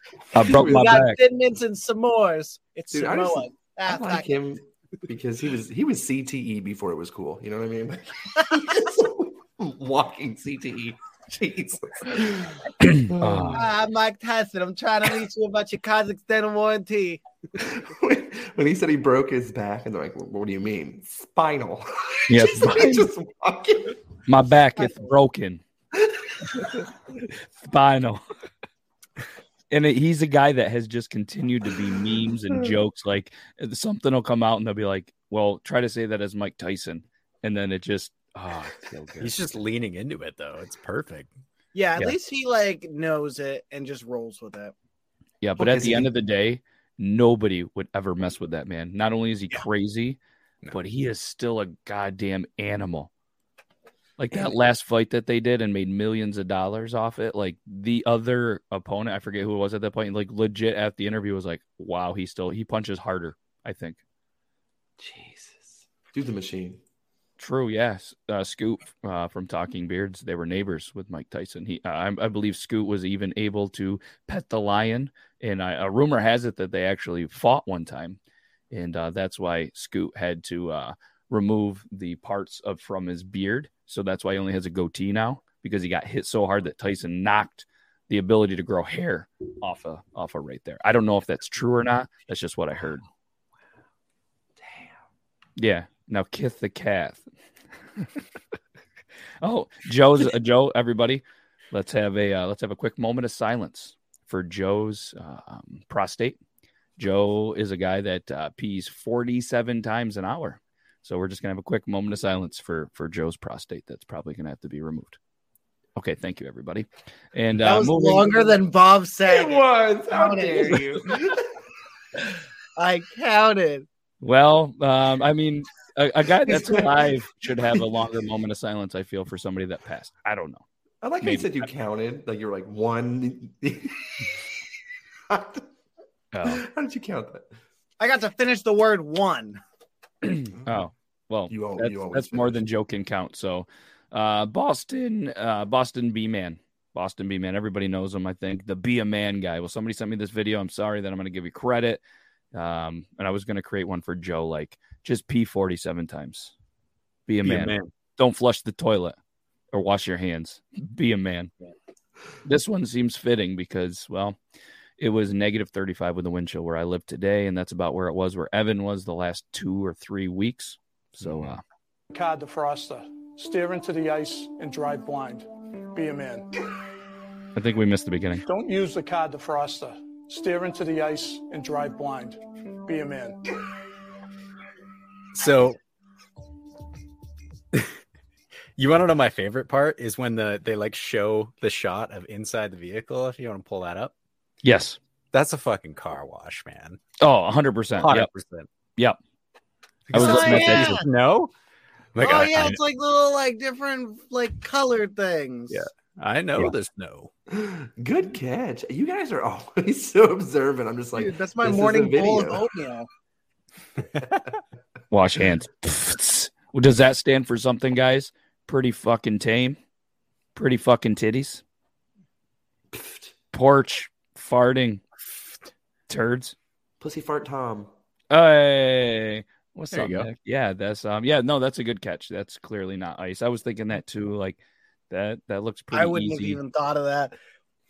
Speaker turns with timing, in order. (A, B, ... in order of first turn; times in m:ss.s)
0:00.3-0:01.2 A
0:00.4-0:00.8 B
0:00.4-0:04.3 C
0:02.9-0:13.7 B
0:12.8-0:13.7 A
0:13.5-0:17.2 C
0:17.6-0:24.0 B
0:22.3-0:23.1 A
0:24.2-0:25.6 A
0:24.8-0:25.1 C
0:27.3-0:28.2 A
0:29.7-0:39.4 A
0:38.5-0:41.3 D
0:41.7-0:44.7 C
0:45.4-0:50.2 A
0:45.6-0:46.1 C
0:50.7-0:53.1 A
0:54.2-1:04.0 A
1:05.0-1:06.8 B
1:07.4-1:18.2 A
1:18.7-1:33.0 A
1:34.6-1:35.0 B
1:35.6-1:37.3 A
1:39.4-1:46.4 A
1:47.0-1:55.2 A
1:56.0-1:58.5 A
1:57.6-2:01.0 C
1:59.2-2:01.4 B
2:02.8-2:03.8 C
2:04.2-2:10.6 A
2:06.4-2:07.1 B
2:11.0-2:14.4 B
2:11.2-2:11.7 A
2:15.3-2:15.6 B
2:16.3-2:16.6 A
2:16.4-2:17.5 B
2:18.0-2:19.6 C
2:20.2-2:32.0 A
2:21.5-2:22.6 B
2:32.5-2:36.5 A
2:37.3-2:39.2 A
2:37.4-2:37.9 D
2:39.7-2:41.5 A
2:42.4-2:44.4 A
2:45.0-2:51.6 A
2:52.1-2:56.4 E
2:57.5-2:58.4 A
2:58.4-3:03.4 E
3:05.3-3:05.8 D
3:08.8-3:14.1 D
3:14.6-3:15.0 A
3:15.3-3:17.0 D
3:17.2-3:18.3 A
3:18.0-3:18.7 D
3:20.1-3:21.5 D
3:20.1-3:21.0 A
3:20.1-3:21.1 C
3:22.1-3:22.8 D
3:22.2-3:25.8 C
3:25.7-3:27.3 D
3:27.5-3:32.6 B
3:31.1-3:33.1 C
3:35.1-3:39.8 A
3:40.5-3:41.6 A
3:42.9-3:43.3 B
3:43.5-3:45.0 A
3:46.1-3:46.6 A
3:47.0-3:47.9 B
3:48.3-3:54.6 A
3:49.9-3:50.3 D
3:55.1-3:56.6 A
3:55.9-3:57.4 C